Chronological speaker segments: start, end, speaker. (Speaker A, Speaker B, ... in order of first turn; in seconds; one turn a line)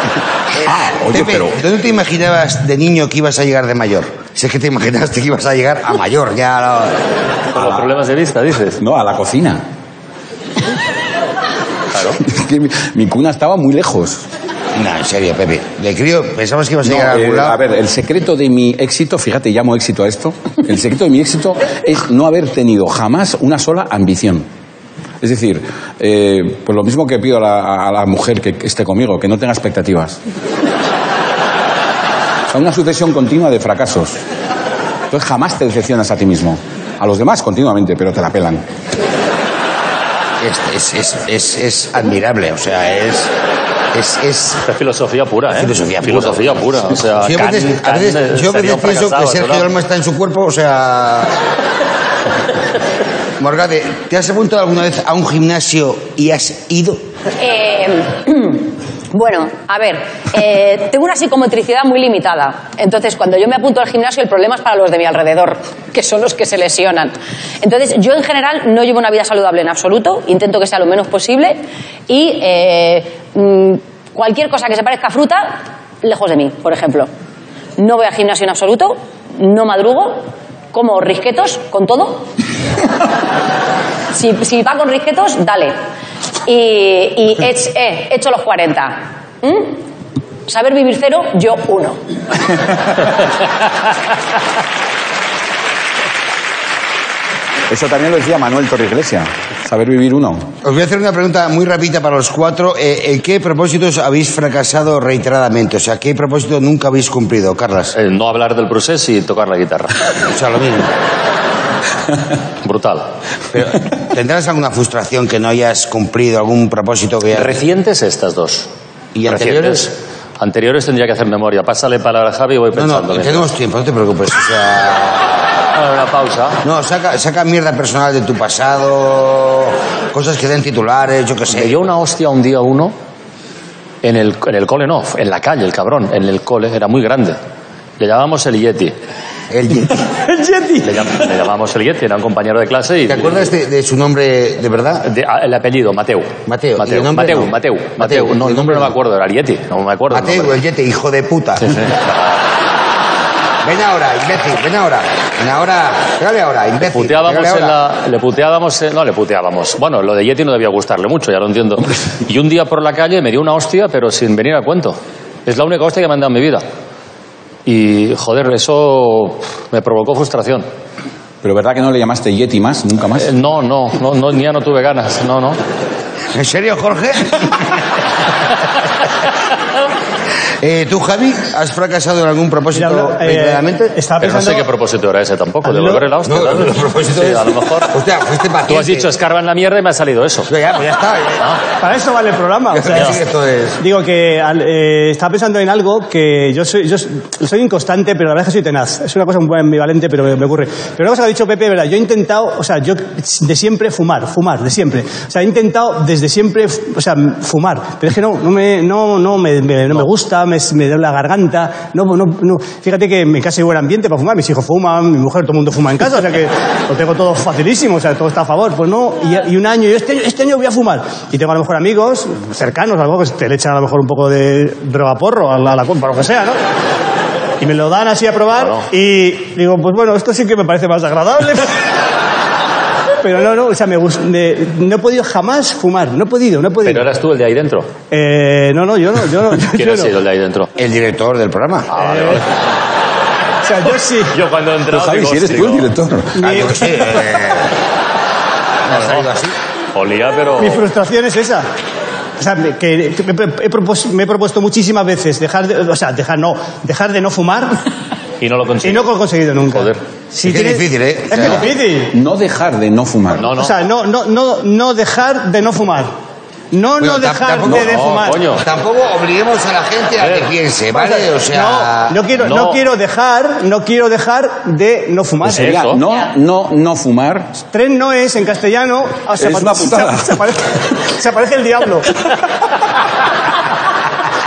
Speaker A: 0.6-1.6
Speaker B: 1.1-7.0
Speaker C: 7.5-8.8
Speaker A: 8.8-9.6
Speaker C: 11.9-12.2
Speaker A: 12.2-14.2
Speaker B: 14.8-17.6
Speaker A: 16.9-24.5
Speaker A: 25.2-30.2
Speaker A: 32.5-34.2
Speaker A: 35.1-38.6
Speaker B: 40.4-43.3
Speaker B: 43.9-44.6
Speaker C: 44.7-49.7
Speaker B: 45.5-51.4
Speaker B: 53.4-57.0
Speaker D: 57.4-77.1
Speaker D: 77.8-82.3
Speaker D: 84.1-85.8
Speaker D: 86.5-89.8
Speaker D: 90.5-92.0
Speaker A: 97.7-100.5
Speaker B: 100.6-108.0
Speaker C: 108.0-109.9
Speaker B: 110.3-110.9
Speaker C: 112.6-113.1
Speaker B: 113.5-117.6
Speaker C: 117.3-118.7
Speaker B: 119.2-119.9
Speaker C: 119.3-123.5
Speaker B: 122.7-125.6
Speaker C: 125.7-126.6
Speaker B: 126.6-131.8
Speaker C: 131.5-132.9
Speaker C: 134.0-137.4
Speaker C: 138.0-139.0
Speaker B: 139.5-140.0
Speaker E: 140.2-141.1
Speaker C: 140.8-143.4
Speaker B: 143.1-145.1
Speaker C: 145.0-150.6
Speaker B: 146.5-148.9
Speaker B: 150.1-151.8
Speaker C: 151.6-152.1
Speaker B: 153.6-157.8
Speaker C: 156.9-166.6
Speaker C: 167.7-170.7
Speaker A: 171.4-173.3
Speaker C: 173.2-175.6
Speaker B: 176.3-177.8
Speaker B: 180.6-184.0
Speaker E: 182.7-184.7
Speaker C: 184.2-187.9
Speaker E: 185.7-186.0
Speaker B: 186.2-189.1
Speaker C: 188.7-190.5
Speaker B: 190.5-191.5
Speaker E: 191.8-193.2
Speaker B: 192.7-193.8
Speaker E: 193.8-226.6
Speaker E: 227.6-231.8
Speaker C: 228.6-228.9
Speaker E: 233.2-237.1
Speaker C: 236.8-237.9
Speaker E: 238.1-240.1
Speaker C: 239.7-240.7
Speaker B: 240.8-241.9
Speaker C: 241.9-242.5
Speaker E: 242.0-242.4
Speaker E: 243.6-244.4
Speaker C: 244.3-245.9
Speaker A: 244.9-246.5
Speaker E: 246.4-246.8
Speaker B: 246.4-247.7
Speaker B: 248.9-249.5
Speaker C: 248.9-249.3
Speaker C: 249.9-250.9
Speaker E: 250.6-251.7
Speaker E: 252.4-257.8
Speaker C: 258.4-259.1
Speaker E: 258.8-262.2
Speaker C: 259.7-260.0
Speaker B: 260.4-261.7
Speaker A: 262.1-263.5
Speaker C: 263.4-263.8
Speaker E: 263.5-266.1
Speaker E: 266.7-268.4
Speaker B: 267.0-272.2
Speaker C: 267.8-268.6
Speaker C: 270.2-270.5
Speaker E: 270.9-275.8
Speaker C: 272.4-272.8
Speaker C: 275.4-276.0
Speaker A: 275.6-277.5
Speaker E: 277.7-282.2
Speaker A: 279.4-280.4